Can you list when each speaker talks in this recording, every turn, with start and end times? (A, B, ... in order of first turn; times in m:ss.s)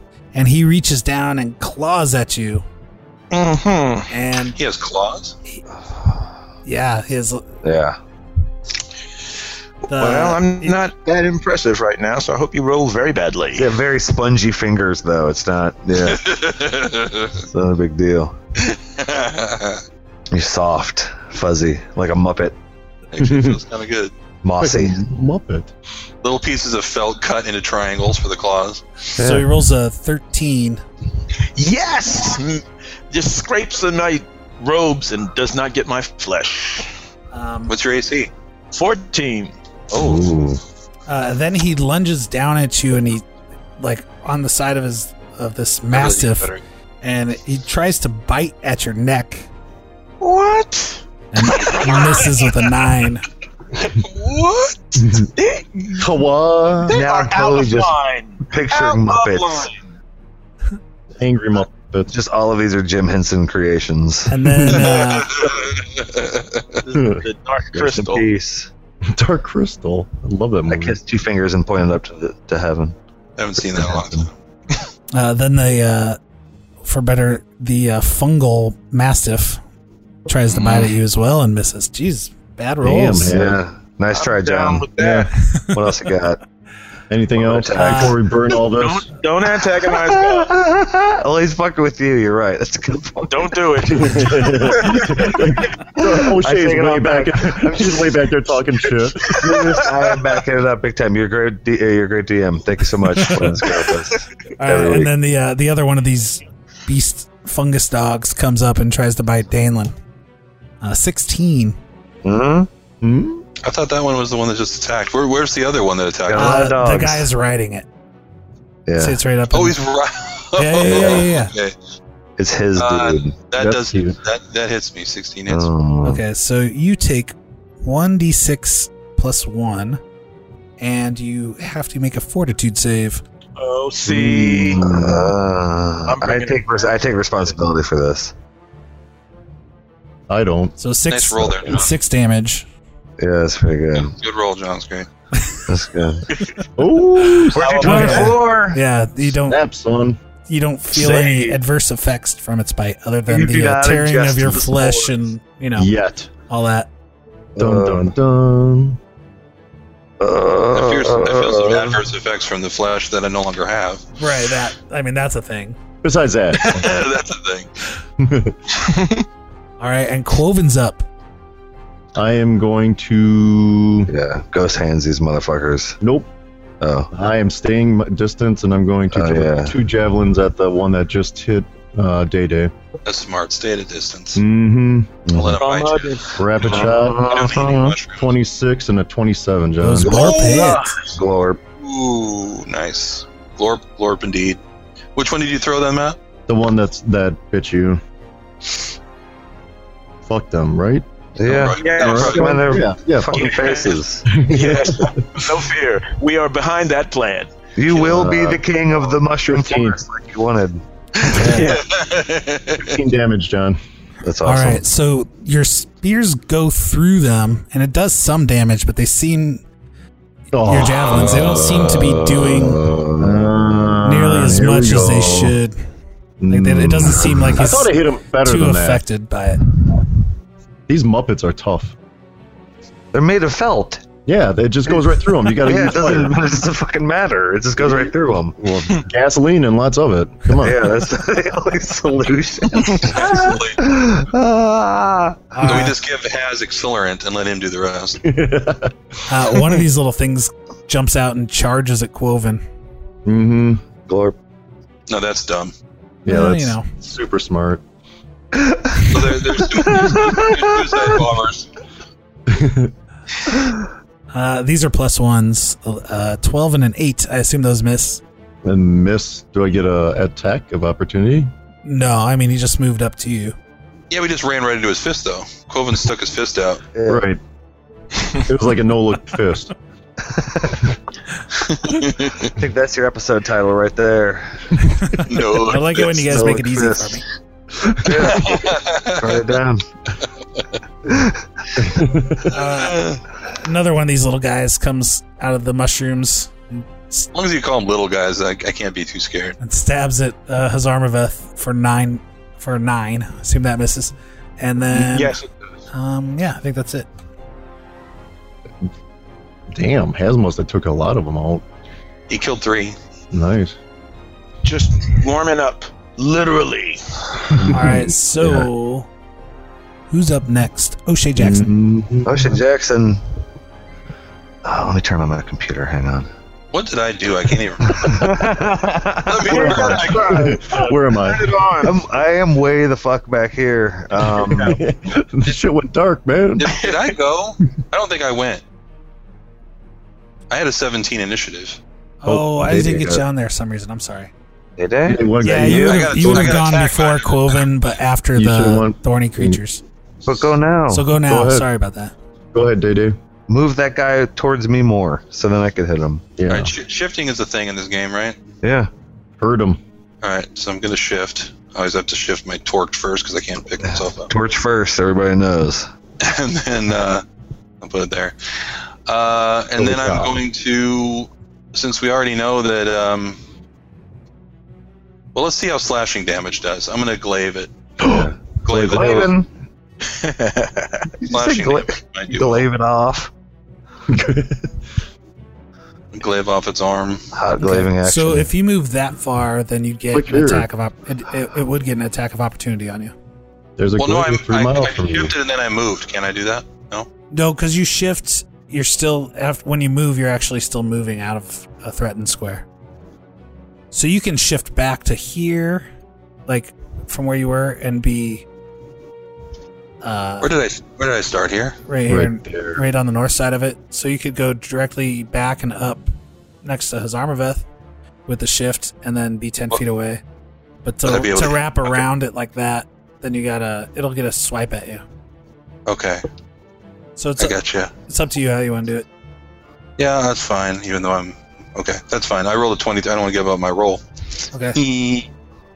0:00.3-0:02.6 A
0:03.3-0:04.1 B
0:04.1-0:04.6 A
0:04.6-0:05.4 C
0:05.8-0:06.3 D
0:06.6-0:07.4 A
0:07.6-0:08.0 D
0:09.9-0:10.8 A
0:09.9-0:13.7 B
0:13.6-0:16.3 D
0:16.0-0:17.4 C
0:17.5-0:18.3 D
0:18.6-0:19.8 C
0:20.3-0:22.6 D
0:23.1-0:24.1 C
0:23.2-0:23.6 E
0:24.4-0:25.0 D
0:24.6-0:25.7 E
0:26.2-0:28.8 C
0:29.2-0:30.8 A
0:29.2-0:29.4 E
0:31.6-0:36.9 B
0:37.3-0:37.7 A
0:37.7-0:38.3 C
0:38.7-0:39.5 B
0:39.9-0:40.6 D
0:41.1-0:43.2 A
0:43.8-0:49.5 A
0:45.9-0:46.6 C
0:50.2-0:52.7 B
0:51.3-0:53.2 A
0:53.8-0:56.1 B
0:55.0-0:55.3 E
0:56.0-0:57.0 E
0:56.8-0:59.8 B
0:56.9-0:59.7 D
1:01.2-1:02.1 E
1:02.1-1:04.7 D
1:04.3-1:05.3 A
1:04.4-1:04.9 E
1:05.0-1:06.6 C
1:06.8-1:08.3 B
1:06.9-1:07.2 E
1:07.7-1:08.7 D
1:09.1-1:11.0 E
1:10.7-1:13.0 D
1:13.4-1:14.3 C
1:13.6-1:14.2 D
1:15.1-1:16.2 A
1:16.8-1:19.6 A
1:20.3-1:23.3 A
1:20.5-1:20.9 D
1:22.8-1:23.6 E
1:23.3-1:24.9 D
1:24.1-1:25.3 B
1:25.0-1:25.3 E
1:25.6-1:26.4 D
1:27.1-1:29.1 E
1:27.3-1:28.2 D
1:27.7-1:28.2 A
1:28.6-1:30.5 B
1:29.9-1:38.2 D
1:33.3-1:34.5 B
1:33.9-1:39.3 E
1:39.2-1:45.1 D
1:39.4-1:39.8 B
1:44.6-1:49.9 A
1:50.8-1:51.8 A
1:52.2-1:52.7 D
1:53.0-1:53.4 E
1:53.6-1:56.7 C
1:56.3-1:57.3 D
1:56.3-1:57.8 A
1:58.9-1:59.2 D
1:59.0-1:59.8 A
1:59.5-2:01.7 C
2:00.6-2:01.5 A
2:00.8-2:01.2 D
2:02.4-2:03.3 D
2:02.7-2:05.7 C
2:03.6-2:04.2 E
2:05.5-2:06.2 D
2:06.0-2:10.0 A
2:10.8-2:13.2 A
2:13.6-2:14.9 B
2:14.1-2:18.3 D
2:14.7-2:15.3 E
2:16.0-2:16.8 B
2:20.3-2:20.8 E
2:20.8-2:22.6 A
2:21.1-2:21.9 C
2:21.5-2:21.8 E
2:23.2-2:24.1 D
2:24.0-2:25.1 C
2:25.7-2:26.2 D
2:26.3-2:26.6 B
2:26.8-2:28.2 E
2:27.5-2:28.4 B
2:27.5-2:28.8 D
2:27.8-2:29.6 A
2:29.4-2:30.2 E
2:30.5-2:35.9 A
2:30.9-2:31.6 B
2:33.3-2:35.2 D
2:35.8-2:36.3 E
2:36.5-2:36.9 A
2:37.6-2:38.1 D
2:37.6-2:39.0 E
2:40.2-2:42.0 D
2:40.7-2:44.0 C
2:44.2-2:45.8 A
2:46.0-2:47.0 E
2:46.5-2:47.7 C
2:48.2-2:48.6 E
2:48.7-2:49.2 B
2:49.8-2:51.0 A
2:52.1-2:54.1 E
2:54.1-2:56.0 D
2:56.0-2:56.3 E
2:56.8-2:57.1 D
2:57.1-3:02.7 E
2:59.1-2:59.8 D
3:03.0-3:04.4 C
3:04.3-3:05.1 E
3:05.3-3:05.7 D
3:05.3-3:08.3 C
3:05.6-3:06.4 B
3:06.4-3:07.2 E
3:06.6-3:08.0 D
3:08.2-3:10.2 E
3:09.8-3:10.9 A
3:10.1-3:11.1 B
3:10.1-3:11.6 D
3:11.8-3:14.6 C
3:15.2-3:16.2 C
3:16.5-3:18.0 E
3:20.2-3:21.0 E
3:21.4-3:24.3 D
3:21.4-3:22.5 C
3:21.7-3:28.3 B
3:22.0-3:23.6 E
3:24.2-3:25.1 E
3:27.8-3:31.6 D
3:27.9-3:30.0 E
3:31.3-3:31.8 E
3:31.4-3:31.9 B
3:31.6-3:32.9 C
3:32.7-3:33.8 E
3:34.2-3:34.8 D
3:34.4-3:39.6 A
3:40.5-3:41.9 E
3:40.6-3:42.8 A
3:41.1-3:43.8 D
3:43.2-3:45.6 E
3:44.0-3:45.8 A
3:46.4-3:49.0 E
3:46.5-3:49.6 A
3:50.9-3:51.9 E
3:53.1-3:54.0 D
3:54.2-3:56.4 E
3:55.5-3:58.6 D
3:57.8-4:01.1 E
4:00.6-4:05.9 D
4:03.0-4:03.8 C
4:05.5-4:06.0 A
4:05.6-4:08.2 C
4:08.2-4:08.9 E
4:09.3-4:12.6 A
4:13.2-4:13.8 E
4:14.1-4:14.4 D
4:15.1-4:15.7 C
4:16.2-4:17.8 E
4:16.3-4:16.8 A
4:18.6-4:21.2 D
4:19.1-4:21.7 C
4:22.5-4:22.9 E
4:24.3-4:28.2 A
4:28.6-4:31.5 E
4:31.8-4:33.5 A
4:34.1-4:36.8 C
4:36.9-4:37.2 D
4:37.1-4:37.4 E
4:38.4-4:39.7 E
4:40.2-4:40.9 D
4:41.8-4:42.5 C
4:42.5-4:44.9 D
4:45.0-4:47.2 A
4:45.3-4:46.2 C
4:46.1-4:47.2 D
4:47.8-4:48.5 E
4:47.9-4:49.8 D
4:48.2-4:49.5 C
4:51.0-4:51.4 D
4:51.8-4:52.4 E
4:52.5-4:57.3 A
4:52.6-4:53.2 C
4:57.3-4:59.6 C
4:59.6-5:05.4 A
5:04.9-5:05.5 B
5:05.9-5:07.1 A
5:09.7-5:11.6 E
5:12.3-5:13.0 C
5:13.3-5:13.8 E
5:14.6-5:17.5 B
5:17.6-5:18.6 E
5:17.7-5:19.1 A
5:20.1-5:21.7 A
5:21.4-5:22.5 E
5:22.2-5:23.2 D
5:24.6-5:26.3 D
5:26.7-5:28.5 C
5:27.9-5:30.3 D
5:29.3-5:30.5 C
5:29.5-5:31.8 E
5:29.5-5:32.0 B
5:31.8-5:34.8 D
5:34.2-5:36.8 E
5:36.6-5:38.6 C
5:36.7-5:37.1 B
5:40.5-5:41.8 C
5:42.2-5:44.3 A
5:42.2-5:43.2 E
5:44.8-5:45.9 D
5:45.0-5:46.6 E
5:45.4-5:49.8 A
5:45.6-5:47.7 C
5:48.3-5:49.6 E
5:50.2-5:51.1 D
5:50.9-5:52.1 A
5:51.2-5:51.7 E
5:52.5-5:53.2 E
5:53.5-5:56.2 D
5:56.4-5:56.7 E
5:56.5-5:58.4 C
5:58.6-5:58.9 D
5:59.4-5:59.8 E
6:00.2-6:04.3 C
6:03.8-6:05.9 D
6:06.2-6:07.2 C
6:07.8-6:08.3 C
6:09.1-6:13.4 C
6:09.8-6:10.4 E
6:15.3-6:17.7 C
6:18.0-6:19.5 D
6:18.6-6:19.3 C
6:18.8-6:19.1 E
6:20.0-6:21.1 B
6:21.2-6:23.3 D
6:21.3-6:22.7 C
6:24.1-6:24.7 E
6:26.1-6:27.2 C
6:27.3-6:28.5 D
6:27.6-6:33.1 A
6:30.1-6:30.7 E
6:33.8-6:35.3 E
6:34.0-6:37.1 C
6:37.3-6:42.6 A
6:43.9-6:45.9 A
6:46.5-6:48.4 A
6:50.0-6:50.5 A
6:50.4-6:51.8 C
6:51.9-6:56.1 A
6:52.1-6:52.8 E
6:56.6-6:57.6 A
6:58.3-7:00.2 A
7:00.8-7:05.0 A
7:01.0-7:02.0 C
7:05.8-7:06.2 C
7:07.2-7:09.0 A
7:07.4-7:07.9 C
7:10.0-7:14.0 C
7:14.5-7:14.8 A
7:14.7-7:15.3 C